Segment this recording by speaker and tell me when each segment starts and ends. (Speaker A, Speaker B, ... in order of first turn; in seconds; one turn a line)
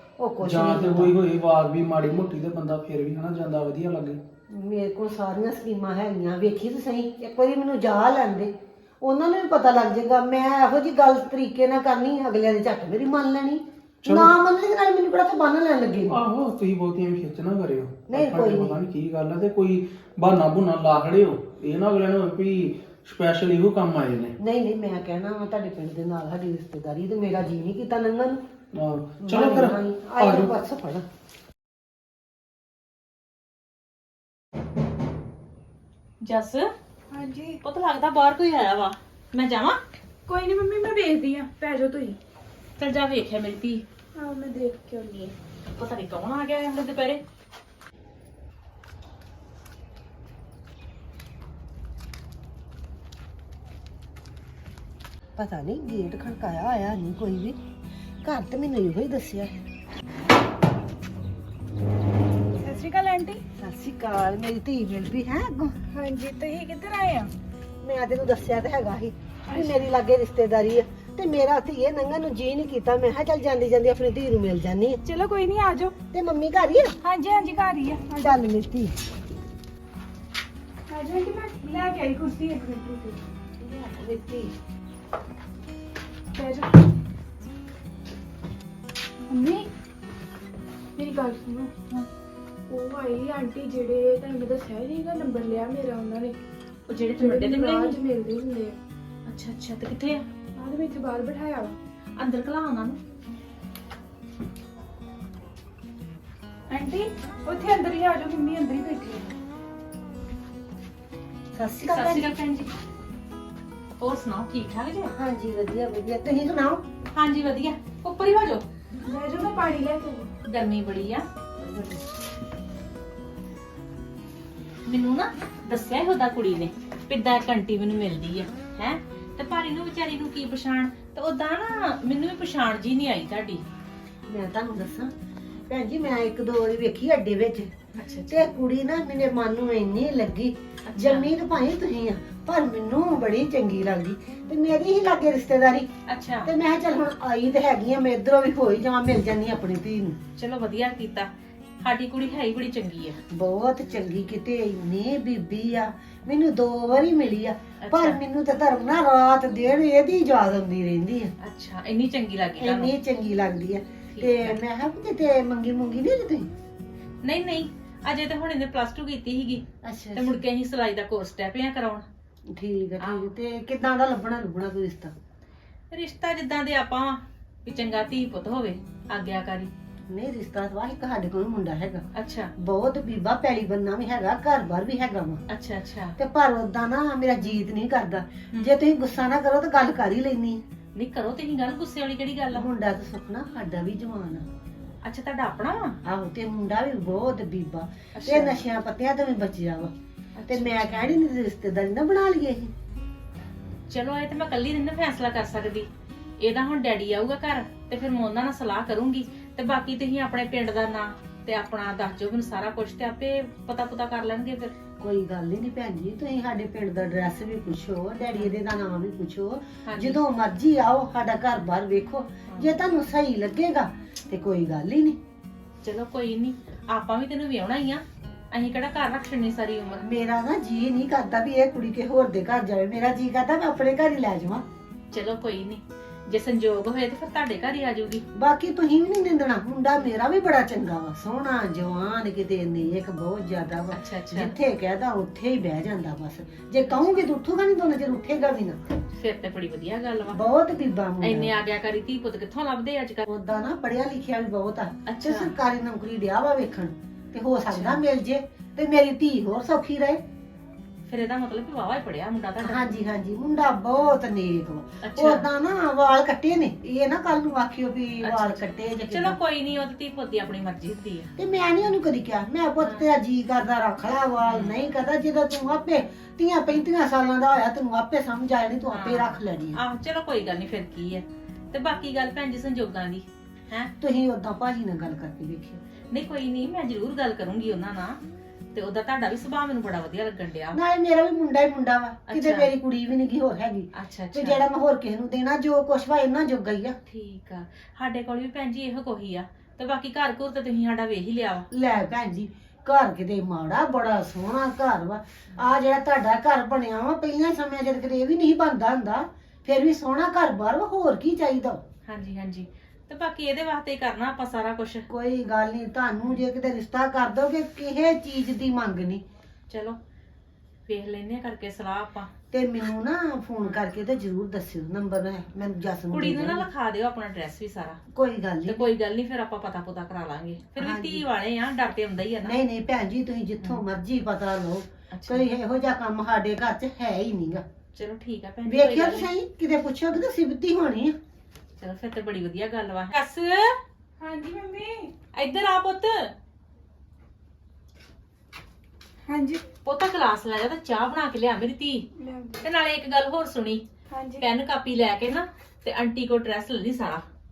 Speaker A: 0.2-1.1
Speaker B: 0.4-4.2
Speaker A: 4.5-16.2
Speaker B: 14.0-14.3
Speaker B: 16.1-24.4
Speaker A: 18.1-18.8
Speaker A: 24.4-28.4
Speaker B: 28.7-30.5
Speaker A: 29.2-31.1
Speaker C: 36.2-36.7
Speaker D: 37.1-37.6
Speaker C: 37.6-39.8
Speaker D: 40.3-42.2
Speaker C: 42.8-43.8
Speaker D: 44.1-45.4
Speaker C: 45.7-47.2
Speaker A: 55.4-57.6
Speaker A: 58.2-59.6
Speaker D: 62.6-63.4
Speaker A: 63.6-65.8
Speaker D: 65.9-67.3
Speaker A: 67.8-75.0
Speaker D: 69.5-69.8
Speaker D: 75.0-75.9
Speaker A: 76.1-77.0
Speaker D: 77.0-78.4
Speaker A: 78.2-79.0
Speaker D: 80.9-83.2
Speaker A: 83.6-84.5
Speaker D: 86.3-86.8
Speaker D: 89.3-89.7
Speaker D: 91.0-91.7
Speaker D: 92.7-96.4
Speaker C: 96.9-98.0
Speaker D: 97.2-98.8
Speaker C: 99.3-100.2
Speaker D: 100.6-101.7
Speaker C: 102.2-103.0
Speaker D: 106.7-109.3
Speaker A: 111.5-112.3
Speaker C: 111.8-112.7
Speaker C: 114.0-115.1
Speaker A: 115.1-116.8
Speaker C: 117.1-118.6
Speaker D: 119.0-120.3
Speaker C: 120.5-121.2
Speaker A: 121.6-122.0
Speaker C: 124.9-133.6
Speaker A: 134.3-135.1
Speaker A: 135.7-137.7
Speaker C: 137.9-138.5
Speaker A: 138.3-145.9
Speaker C: 140.9-141.3
Speaker C: 146.1-146.5
Speaker A: 146.4-150.2
Speaker C: 150.4-151.3
Speaker C: 151.8-153.2
Speaker A: 153.3-161.3
Speaker C: 157.8-158.2
Speaker C: 161.4-162.9
Speaker A: 162.6-166.5
Speaker C: 164.2-164.6
Speaker C: 167.2-169.6
Speaker A: 169.8-170.4
Speaker C: 170.2-172.1
Speaker A: 172.6-175.1
Speaker C: 173.0-173.3
Speaker C: 175.9-179.7
Speaker A: 180.1-182.0
Speaker C: 182.2-182.5
Speaker A: 182.6-185.4
Speaker C: 185.5-186.2
Speaker A: 186.2-190.6
Speaker C: 190.9-192.7
Speaker A: 192.5-194.5
Speaker C: 195.0-196.0
Speaker A: 196.1-199.9
Speaker C: 198.2-198.6
Speaker C: 200.4-201.2
Speaker A: 200.5-202.7
Speaker C: 203.9-205.9
Speaker C: 206.4-214.7
Speaker A: 215.0-225.2
Speaker C: 219.9-220.2
Speaker C: 222.5-222.7
Speaker C: 225.8-230.0
Speaker A: 230.0-234.6
Speaker C: 235.1-238.2
Speaker A: 238.3-248.8
Speaker C: 243.9-244.5
Speaker C: 246.9-247.2
Speaker C: 249.2-250.4
Speaker A: 250.3-251.6
Speaker C: 251.2-253.2
Speaker A: 253.3-260.2
Speaker C: 255.1-255.5
Speaker C: 257.7-258.0
Speaker C: 261.1-262.9
Speaker A: 262.6-269.4
Speaker C: 265.0-265.4
Speaker C: 268.2-271.3
Speaker A: 271.4-279.8
Speaker C: 272.8-273.1
Speaker C: 274.4-274.8
Speaker C: 278.9-283.9
Speaker A: 284.0-285.8
Speaker C: 286.1-288.2
Speaker C: 288.7-290.8
Speaker A: 290.7-297.0
Speaker C: 292.3-292.7
Speaker C: 293.9-294.6
Speaker C: 297.1-301.7
Speaker A: 301.7-311.8
Speaker C: 312.1-315.1
Speaker A: 315.1-319.2
Speaker C: 319.7-320.0
Speaker C: 320.9-322.3
Speaker A: 322.5-326.6
Speaker C: 326.1-328.0
Speaker A: 328.1-328.9
Speaker C: 328.7-332.6
Speaker A: 330.8-331.3
Speaker A: 332.4-337.6
Speaker C: 335.1-335.4
Speaker C: 337.9-339.3
Speaker A: 338.7-341.1
Speaker C: 341.8-343.8
Speaker D: 344.2-345.1
Speaker C: 345.3-346.3
Speaker D: 349.3-349.6
Speaker C: 349.8-352.1
Speaker D: 352.2-352.6
Speaker C: 352.6-353.8
Speaker D: 354.1-354.4
Speaker C: 354.4-357.2